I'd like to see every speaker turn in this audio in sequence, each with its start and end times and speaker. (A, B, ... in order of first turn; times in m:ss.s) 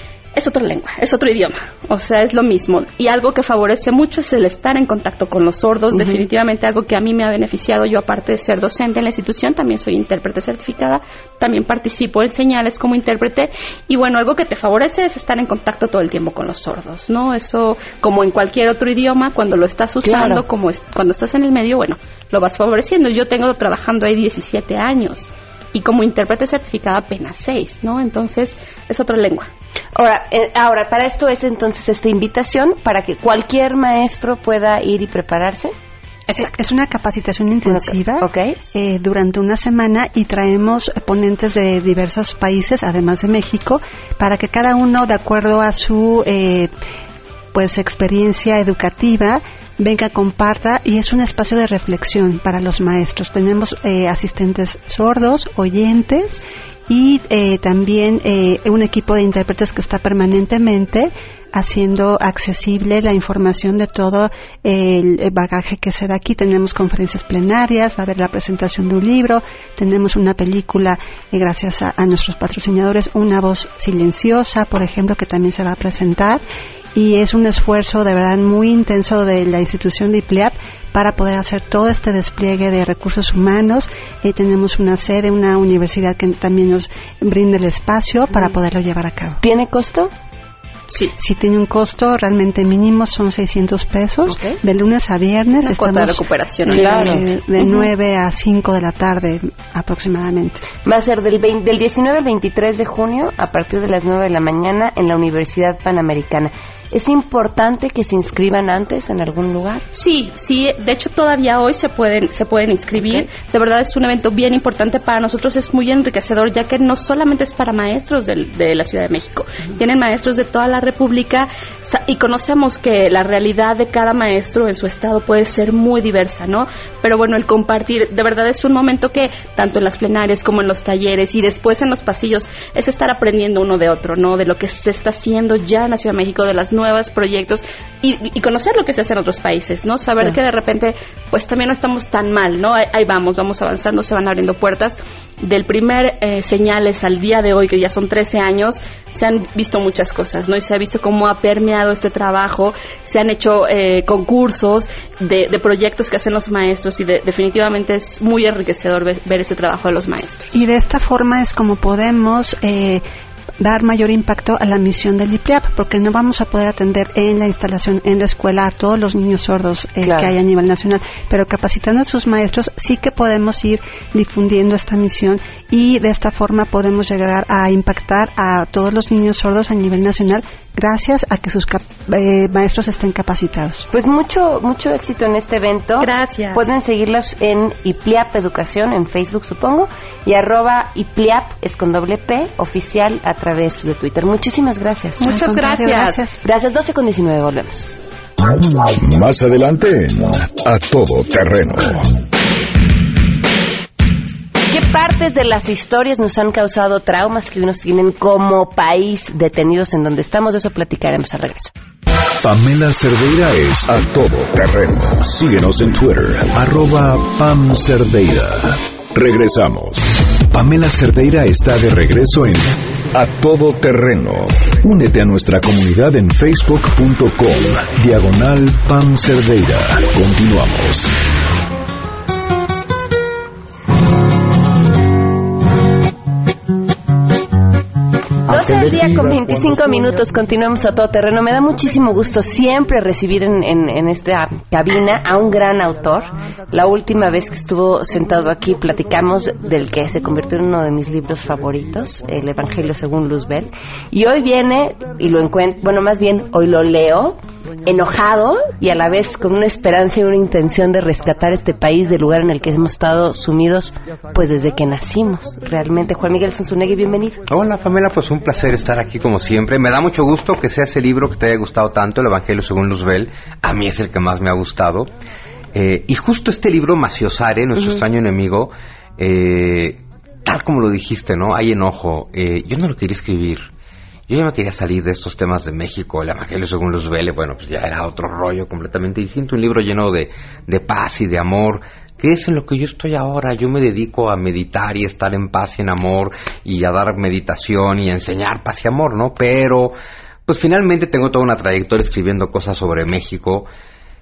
0:00.4-0:29.5 A
0:05.9-0:06.2 B
0:20.0-0:20.4 B
0:30.0-0:35.7 B
0:36.4-0:46.7 C
0:37.6-0:38.6 B
0:47.5-1:16.4 C
1:17.0-1:29.4 C
1:29.4-1:30.1 B
1:30.9-1:31.1 A
1:31.2-1:40.6 C
1:34.3-1:34.6 A
1:35.6-1:37.9 A
1:36.7-1:37.2 B
1:40.8-1:49.8 B
1:49.9-2:40.5 A
1:53.0-1:53.3 B
2:40.5-2:43.0 C
2:43.6-3:03.9 C
2:50.0-2:50.4 B
3:03.9-3:15.3 B
3:06.0-3:06.7 A
3:15.2-3:16.2 A
3:15.2-3:16.4 C
3:16.4-3:17.9 B
3:18.8-3:22.1 D
3:24.7-3:31.7 B
3:32.4-3:51.1 D
3:58.5-4:27.4 B
4:27.5-4:35.1 E
4:35.7-4:43.7 E
4:44.3-5:00.0 E
5:00.5-5:03.7 E